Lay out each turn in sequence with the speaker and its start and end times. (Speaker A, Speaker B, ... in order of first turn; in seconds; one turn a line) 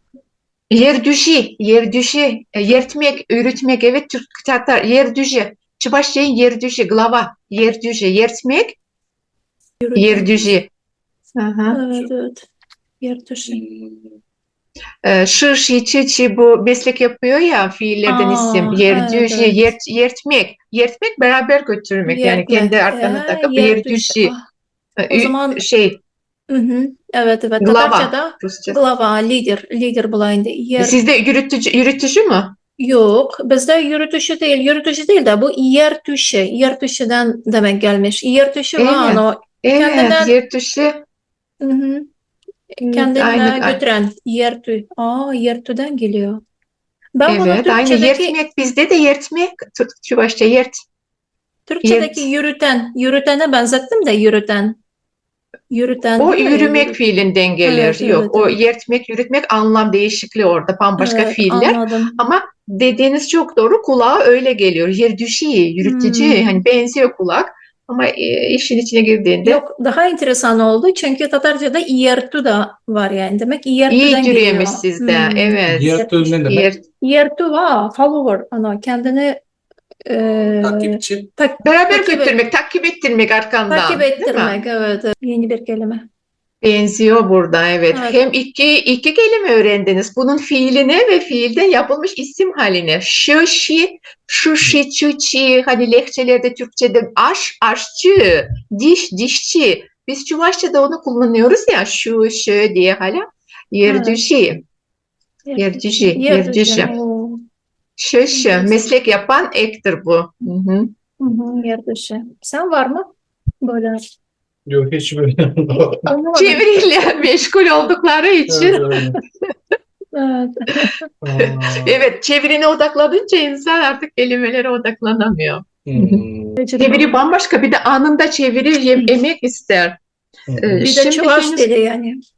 Speaker A: 0.7-8.8
Speaker B: 9.8-10.2
Speaker A: 9.9-10.7
Speaker A: 11.4-11.8
Speaker B: 11.7-12.4
Speaker B: 13.0-13.6
Speaker C: 13.5-14.0
Speaker A: 15.0-24.3
Speaker B: 18.1-19.5
Speaker B: 22.1-24.4
Speaker A: 25.0-26.0
Speaker B: 25.1-25.6
Speaker B: 26.5-30.9
Speaker A: 27.6-28.8
Speaker A: 30.8-32.5
Speaker B: 32.8-40.3
Speaker A: 38.8-41.0
Speaker B: 41.6-42.1
Speaker B: 42.8-46.4
Speaker A: 42.9-43.8
Speaker B: 47.2-48.3
Speaker A: 47.3-50.8
Speaker B: 51.7-54.8
Speaker A: 51.8-52.3
Speaker B: 55.7-56.9
Speaker A: 56.2-69.6
Speaker B: 57.7-58.5
Speaker B: 61.0-62.1
Speaker B: 65.9-66.5
Speaker B: 69.4-75.5
Speaker A: 73.9-76.8
Speaker C: 75.7-76.7
Speaker B: 77.0-79.4
Speaker B: 80.0-82.3
Speaker C: 80.2-81.3
Speaker A: 81.6-84.6
Speaker B: 83.7-86.0
Speaker A: 86.6-104.6
Speaker B: 87.9-88.2
Speaker B: 103.8-104.1
Speaker B: 105.5-107.4
Speaker A: 105.5-106.9
Speaker A: 108.0-110.9
Speaker B: 111.2-113.1
Speaker B: 113.6-114.0
Speaker C: 114.7-116.1
Speaker B: 116.1-116.6
Speaker A: 116.3-118.8
Speaker C: 118.5-119.2
Speaker B: 120.1-120.9
Speaker C: 121.2-122.0
Speaker A: 121.4-126.2
Speaker C: 125.8-126.6
Speaker B: 126.6-127.0
Speaker A: 126.8-130.0
Speaker C: 130.5-130.9
Speaker A: 130.6-131.7
Speaker B: 130.8-132.2